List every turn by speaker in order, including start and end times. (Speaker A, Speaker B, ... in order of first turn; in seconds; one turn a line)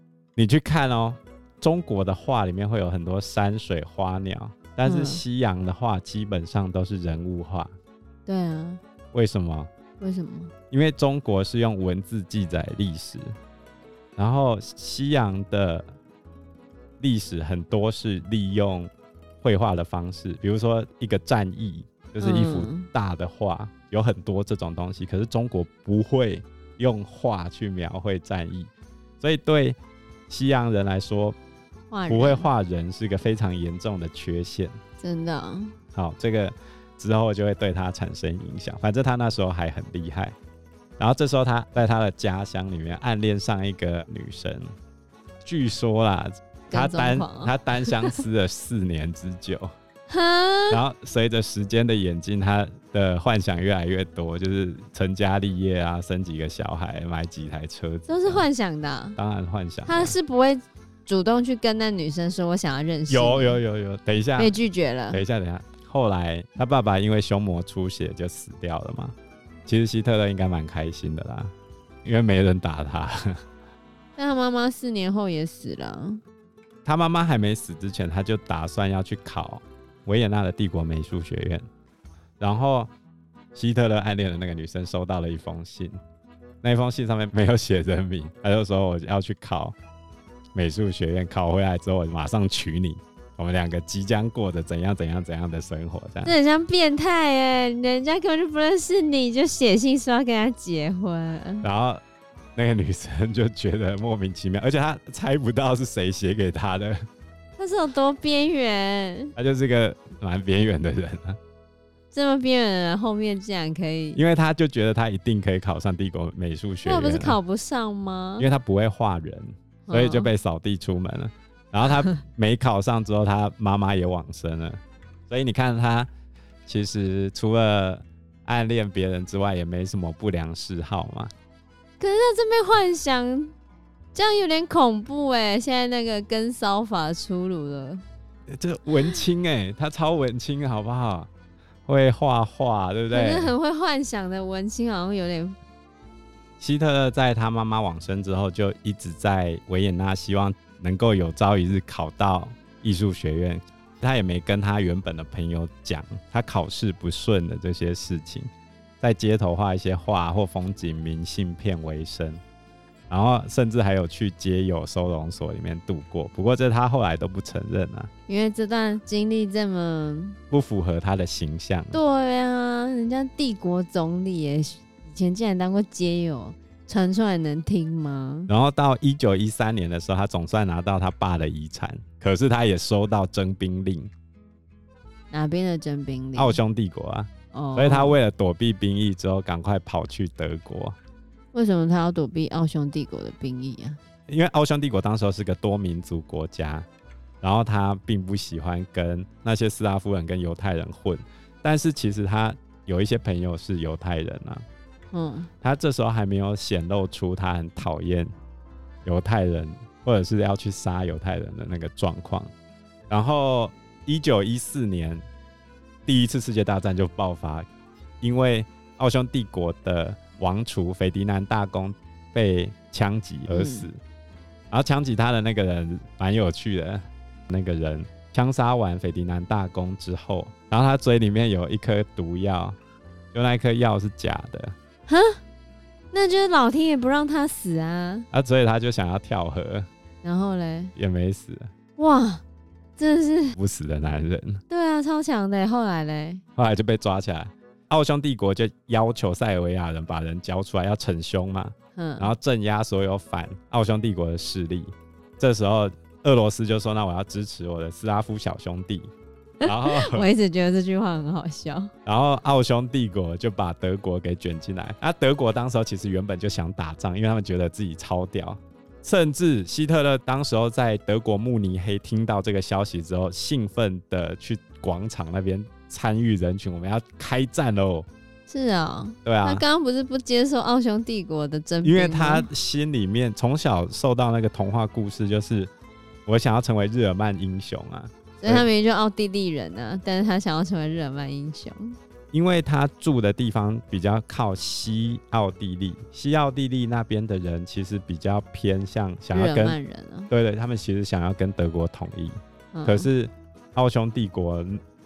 Speaker A: 0.3-7.7
Speaker B: 4.8-5.2
Speaker B: 8.2-8.8
Speaker A: 9.1-9.7
Speaker B: 10.0-10.5
Speaker A: 10.7-13.3
Speaker A: 14.2-15.9
Speaker A: 17.0-29.8
Speaker B: 22.2-22.9
Speaker A: 30.3-31.4
Speaker B: 31.9-32.5
Speaker A: 32.1-34.8
Speaker B: 35.0-35.7
Speaker A: 35.9-40.4
Speaker A: 41.0-44.7
Speaker A: 45.4-49.7
Speaker B: 46.7-48.2
Speaker B: 50.1-50.8
Speaker A: 50.7-58.5
Speaker B: 58.1-59.2
Speaker A: 59.1-60.1
Speaker B: 59.9-63.6
Speaker A: 63.1-64.5
Speaker B: 64.3-65.2
Speaker A: 65.1-71.5
Speaker A: 72.0-73.3
Speaker B: 74.2-76.2
Speaker A: 76.8-81.6
Speaker A: 82.4-82.9
Speaker A: 83.5-86.0
Speaker A: 86.6-89.8
Speaker A: 90.5-96.3
Speaker B: 96.2-101.7
Speaker A: 101.6-102.0
Speaker A: 102.5-107.0
Speaker B: 107.6-109.3
Speaker A: 109.3-111.4
Speaker B: 112.1-114.2
Speaker A: 114.2-117.4
Speaker B: 116.8-118.5
Speaker A: 118.4-126.1
Speaker B: 119.9-120.3
Speaker A: 126.7-131.3
Speaker B: 132.0-133.5
Speaker B: 134.1-138.0
Speaker A: 138.5-141.3
Speaker A: 141.8-143.5
Speaker B: 143.1-145.6
Speaker A: 146.6-158.5
Speaker A: 159.0-162.4
Speaker A: 163.1-168.1
Speaker B: 168.3-170.4
Speaker A: 170.5-172.0
Speaker B: 171.9-178.5
Speaker A: 178.5-184.1
Speaker B: 185.3-186.6
Speaker A: 186.3-190.9
Speaker B: 187.5-188.2
Speaker B: 191.5-194.0
Speaker A: 194.3-196.9
Speaker A: 197.4-204.6
Speaker B: 205.1-205.5
Speaker A: 205.6-208.3
Speaker A: 209.0-212.5
Speaker A: 213.1-215.2
Speaker A: 216.1-217.7
Speaker A: 218.2-224.0
Speaker B: 223.5-223.9
Speaker A: 224.7-232.8
Speaker A: 233.3-234.7
Speaker B: 235.1-235.4
Speaker B: 236.1-238.3
Speaker A: 238.3-239.9
Speaker B: 240.2-240.9
Speaker A: 240.9-241.7
Speaker B: 242.0-242.4
Speaker B: 243.0-243.6
Speaker A: 243.5-244.6
Speaker B: 244.7-246.4
Speaker A: 246.6-259.1
Speaker B: 251.9-252.3
Speaker B: 259.6-261.9
Speaker A: 259.6-260.3
Speaker A: 262.0-278.1
Speaker B: 278.5-282.5
Speaker A: 279.2-279.6
Speaker A: 281.8-285.7
Speaker A: 286.2-288.7
Speaker B: 288.4-291.9
Speaker A: 292.3-299.8
Speaker B: 299.3-300.3
Speaker A: 300.3-304.8
Speaker B: 302.7-303.1